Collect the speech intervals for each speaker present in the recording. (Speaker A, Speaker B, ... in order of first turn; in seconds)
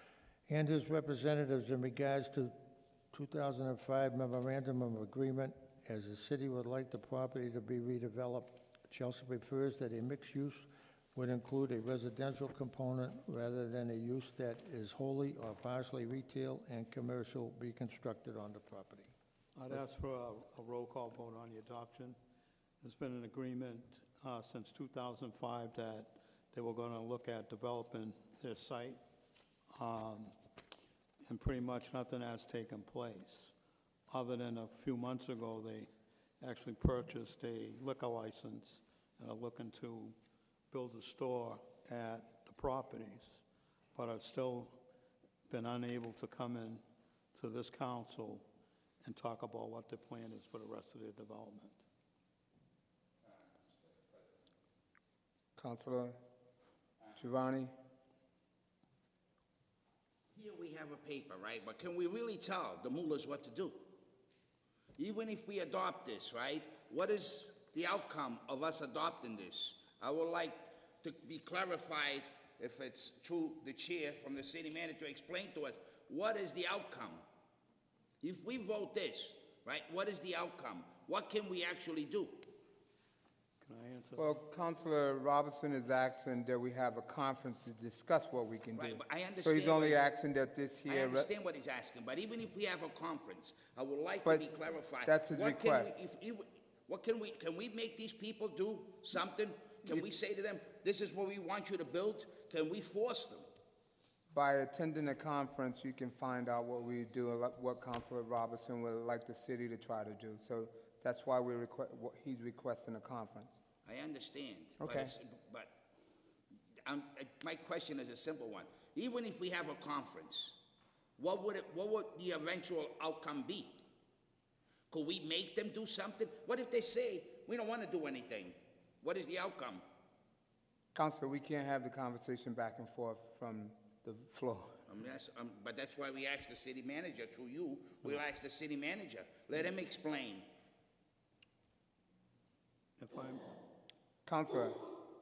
Speaker A: 0.5-2.5, 3.1-19.1
Speaker B: 19.6-22.2, 22.8-29.0, 29.7-30.4, 31.2-33.5, 34.1-40.2, 40.7-43.4, 43.9-44.8, 45.5-46.8, 47.3-48.5, 49.0-51.8, 83.6-84.3, 143.0-143.6
Speaker C: 55.6-56.2, 57.2-57.7, 84.2-91.3, 95.0-95.9, 104.3-113.5, 114.8-115.1, 130.9-134.8, 144.3-144.8
Speaker D: 60.3-63.9, 65.0-77.2, 78.2-82.5, 88.8-90.1, 90.9-103.5, 113.8-115.8, 116.8-120.6, 121.2-123.8, 124.9-129.8, 134.9-140.5